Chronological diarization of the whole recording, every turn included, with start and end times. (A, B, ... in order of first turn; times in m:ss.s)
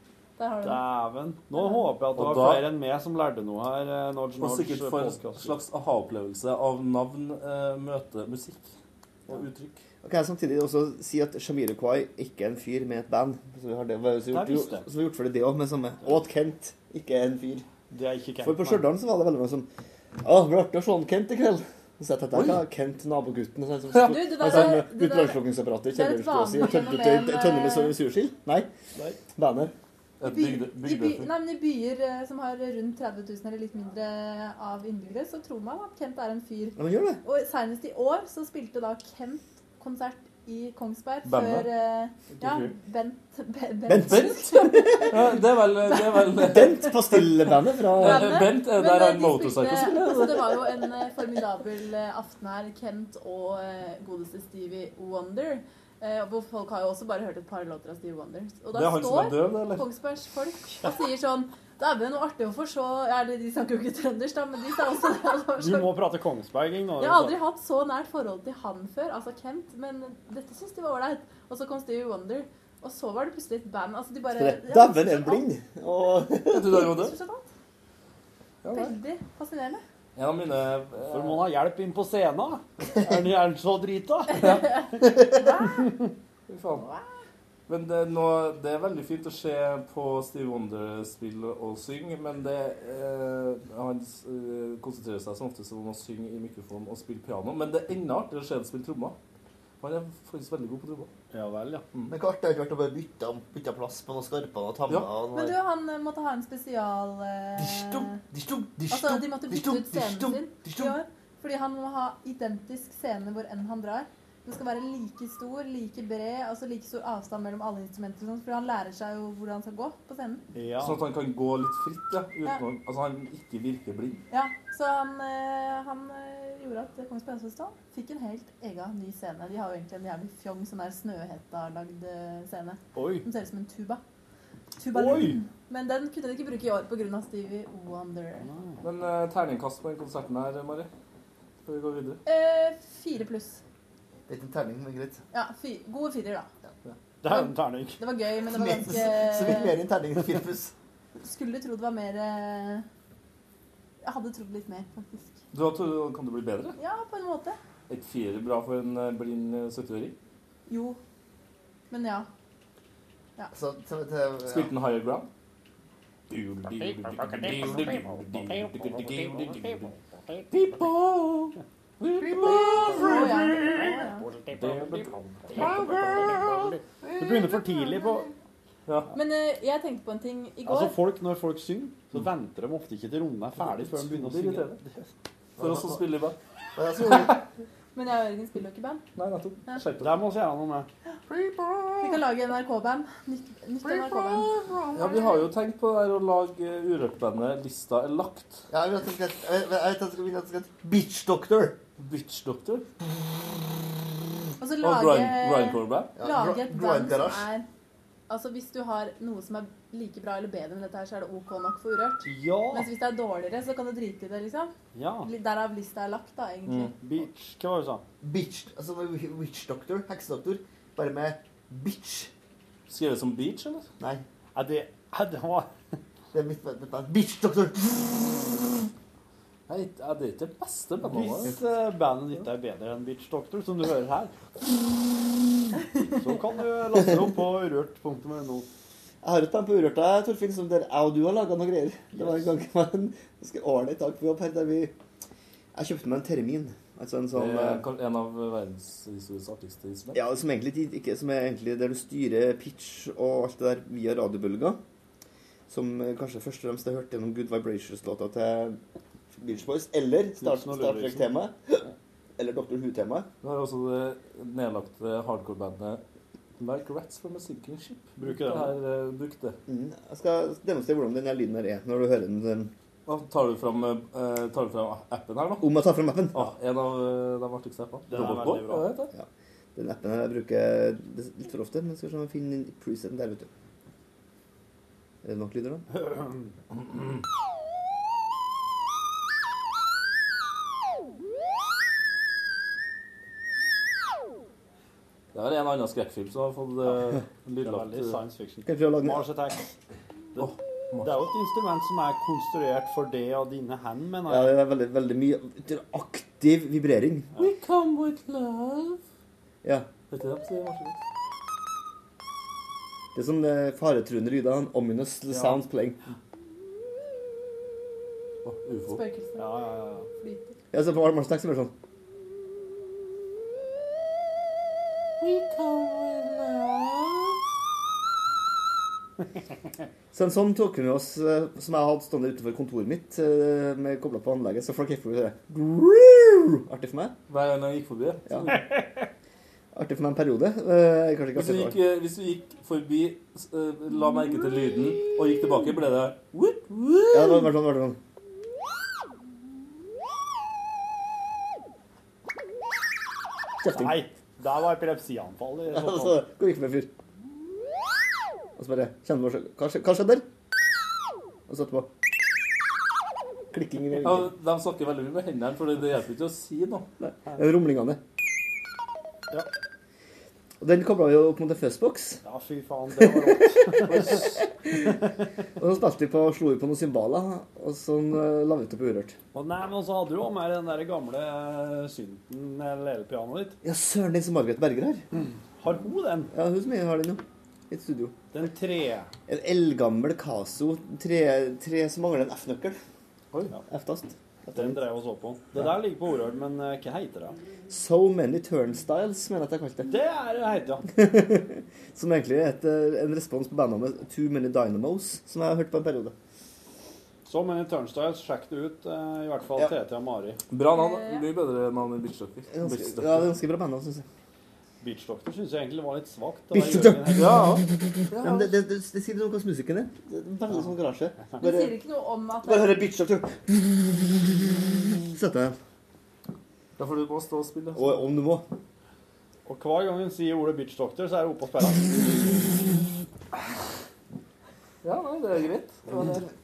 0:00.4-0:00.9 A
0:00.6-0:05.6 B
0:01.5-0:01.9 A
0:02.2-0:02.7 C
0:04.4-0:08.7 C
0:09.3-0:09.8 C
0:10.0-0:17.7 D
0:14.3-0:14.9 B
0:17.9-0:18.9 B
0:18.4-0:19.7 D
0:20.2-0:28.7 D
0:22.3-0:22.6 C
0:24.0-0:28.0 A
0:24.5-0:24.8 C
0:29.3-0:29.7 D
0:30.2-0:31.3 C
0:30.2-0:45.3 A
0:36.8-0:37.2 D
0:41.2-0:41.7 C
0:42.4-0:42.7 C
0:43.9-0:45.2 D
0:44.1-0:44.6 C
0:45.1-0:46.8 C
0:46.0-1:06.0 A
0:46.4-0:48.4 D
0:48.0-0:50.4 C
0:58.7-0:59.8 C
1:05.6-1:07.4 B
1:07.0-1:15.5 A
1:14.3-1:16.9 D
1:16.5-1:17.1 C
1:16.7-1:17.5 A
1:18.6-1:19.0 C
1:18.7-1:19.8 A
1:20.2-1:21.5 C
1:21.1-1:24.7 B
1:24.3-1:25.9 A
1:24.4-1:24.6 C
1:26.5-1:26.8 C
1:26.8-1:27.1 A
1:27.7-1:39.2 C
1:39.8-1:41.1 C
1:41.3-1:41.8 B
1:42.1-1:45.6 D
1:45.3-1:48.2 A
1:47.6-1:51.0 D
1:48.9-2:00.4 A
2:00.6-2:01.0 B
2:00.8-2:04.2 C
2:04.3-2:14.0 A
2:13.0-2:13.3 B
2:14.8-2:18.5 A
2:14.9-2:15.4 B
2:18.4-2:18.8 B
2:18.8-2:20.9 C
2:21.6-2:22.2 C
2:22.2-2:23.6 A
2:24.3-2:25.2 D
2:25.3-2:26.5 A
2:27.2-2:28.0 B
2:27.3-2:29.8 A
2:28.4-2:30.7 D
2:31.2-2:32.9 A
2:34.0-2:35.4 A
2:35.5-2:36.8 C
2:36.8-2:37.6 A
2:37.9-2:40.2 C
2:40.7-2:41.0 A
2:41.9-2:42.3 A
2:43.5-2:44.7 D
2:44.5-2:45.3 C
2:46.3-2:49.9 C
2:50.5-2:53.0 C
2:52.2-2:53.6 D
2:53.0-2:54.3 A
2:54.5-2:56.8 C
2:57.0-2:57.5 D
2:57.2-2:58.3 B
2:59.1-3:01.0 A
3:00.7-3:05.1 B
3:03.6-3:04.8 C
3:05.6-3:06.0 D
3:05.6-3:06.4 C
3:06.8-3:07.4 D
3:08.0-3:09.0 A
3:09.2-3:10.2 C
3:10.0-3:10.9 B
3:11.3-3:11.9 D
3:12.0-3:15.5 A
3:13.9-3:14.4 D
3:14.6-3:18.6 C
3:18.7-3:21.8 D
3:22.0-3:22.9 C
3:24.6-3:27.7 A
3:24.8-3:26.2 C
3:26.2-3:27.5 D
3:28.3-3:36.9 A
3:32.2-3:32.9 B
3:34.9-3:35.3 B
3:37.0-3:38.0 B
3:38.2-3:42.3 D
3:42.9-3:43.9 C
3:44.6-3:45.7 B
3:46.3-3:48.6 D
3:49.7-3:51.5 C
3:51.2-3:54.3 B
3:56.2-3:58.7 B
3:59.2-4:04.9 D
4:05.8-4:07.8 D
4:07.3-4:10.2 C
4:10.2-4:14.8 D
4:15.7-4:18.8 D
4:19.4-4:23.3 D
4:20.4-4:21.3 B
4:23.4-4:26.0 C
4:26.6-4:29.6 C
4:28.2-4:28.8 B
4:29.7-4:32.7 D
4:33.1-4:35.7 C
4:35.6-4:36.5 D
4:36.3-4:39.1 C
4:38.1-4:38.9 B
4:39.1-4:43.5 D
4:45.2-4:45.9 D
4:46.0-4:46.4 B
4:55.3-4:58.2 C
4:57.6-4:59.7 B
4:58.6-4:59.3 D
5:00.4-5:04.6 B
5:00.4-5:01.2 C
5:04.3-5:07.4 D
5:07.4-5:09.0 C
5:10.1-5:11.0 C
5:13.2-5:16.0 D
5:15.3-5:15.6 C
5:18.4-5:19.0 C
5:18.9-5:20.6 A
5:19.4-5:20.1 B
5:20.7-5:21.7 D
5:25.2-5:27.0 C
5:30.1-5:37.2 D
5:37.3-5:38.6 C
5:38.3-5:38.6 D
5:39.7-5:41.8 D
5:41.4-5:47.5 C
5:47.1-5:48.0 D
5:53.6-5:54.0 D
5:53.7-5:56.2 B
5:55.7-5:56.9 D
5:58.6-6:00.3 D
6:01.5-6:02.4 D
6:03.5-6:04.3 D
6:04.0-6:06.9 C
6:07.0-6:08.0 D
6:10.6-6:12.2 D
6:12.2-6:14.2 B
6:13.9-6:15.0 D
6:15.6-6:19.2 D
6:19.3-6:23.6 B
6:23.6-6:25.0 D
6:25.2-6:26.3 B
6:26.3-6:28.2 D
6:28.3-6:29.1 B
6:29.3-6:32.8 D
6:33.7-6:34.8 D
6:34.6-6:37.4 B
6:37.7-6:40.0 D
6:39.8-6:40.9 B
6:40.9-6:46.2 D
6:47.2-6:50.4 B
6:50.5-6:53.4 C
6:50.7-6:51.3 A
6:52.5-6:54.0 D
6:54.8-6:57.5 B
6:56.5-7:01.8 D
6:57.2-6:58.5 C
7:01.4-7:02.9 A
7:02.4-7:05.6 D
7:06.8-7:08.0 C
7:07.8-7:08.5 D
7:09.5-7:12.6 B
7:14.8-7:16.2 C
7:15.9-7:16.3 D